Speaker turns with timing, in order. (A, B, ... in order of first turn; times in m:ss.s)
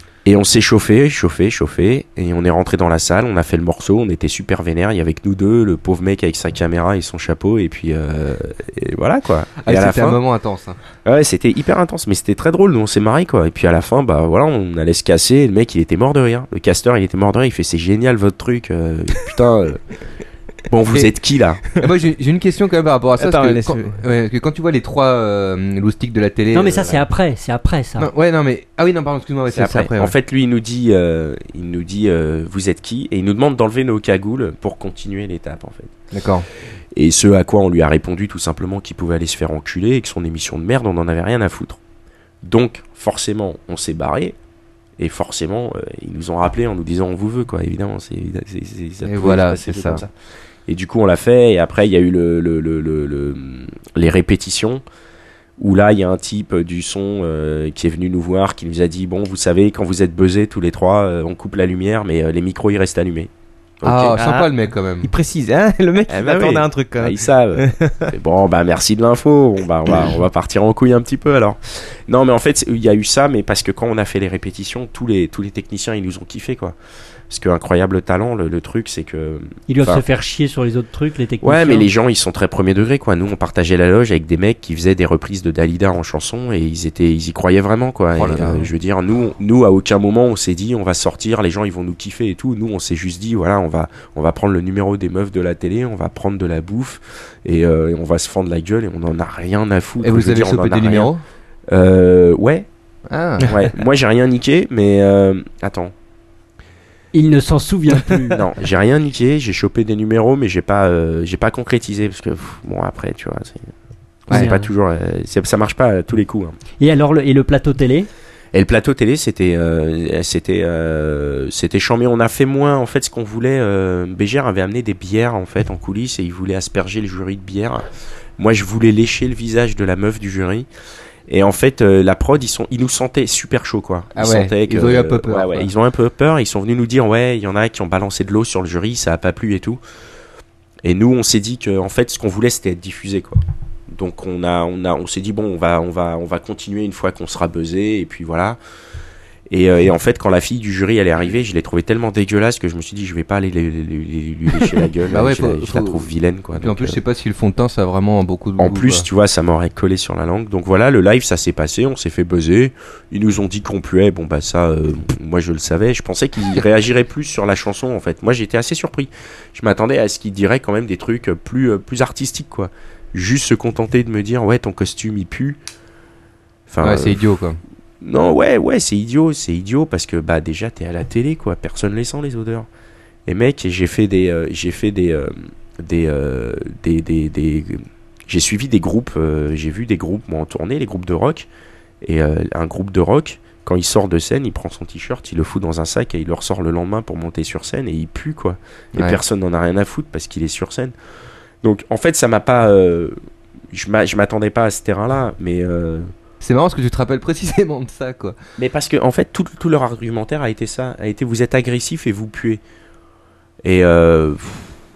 0:00.2-0:10.2 A
0:09.6-0:10.8 B
0:11.0-0:19.8 A
0:20.7-0:21.6 A
0:21.8-0:27.0 B
0:23.2-0:24.0 C
0:26.5-0:28.1 D
0:28.0-0:30.1 B
0:29.5-0:35.9 A
0:36.1-0:36.4 B
0:36.9-0:41.8 A
0:42.4-0:44.4 A
0:45.0-0:50.1 A
0:49.0-0:50.0 B
0:50.7-0:54.8 A
0:55.6-1:03.3 A
1:03.8-1:04.2 A
1:03.8-1:05.1 B
1:04.1-1:08.1 C
1:06.1-1:16.7 A
1:17.3-1:20.0 A
1:19.7-1:21.9 D
1:21.4-1:41.1 A
1:28.1-1:28.7 B
1:40.0-1:41.2 B
1:41.7-1:42.6 A
1:43.1-1:43.5 B
1:43.5-1:45.9 A
1:47.1-1:48.4 D
1:48.4-1:53.7 A
1:54.3-1:56.6 A
1:54.3-1:54.7 D
1:56.8-1:58.1 D
1:58.5-2:07.8 A
2:08.4-2:10.7 A
2:11.3-2:19.8 A
2:14.2-2:15.7 B
2:20.8-2:28.6 A
2:29.5-2:37.0 A
2:35.0-2:39.0 B
2:38.6-2:55.6 A
2:56.7-2:57.2 A
2:56.8-2:57.6 B
2:58.0-3:02.7 A
3:03.3-3:11.5 A
3:12.0-3:20.9 A
3:21.6-3:23.2 A
3:23.7-3:26.1 A
3:26.4-3:28.4 B
3:28.6-3:32.6 A
3:33.6-3:34.8 A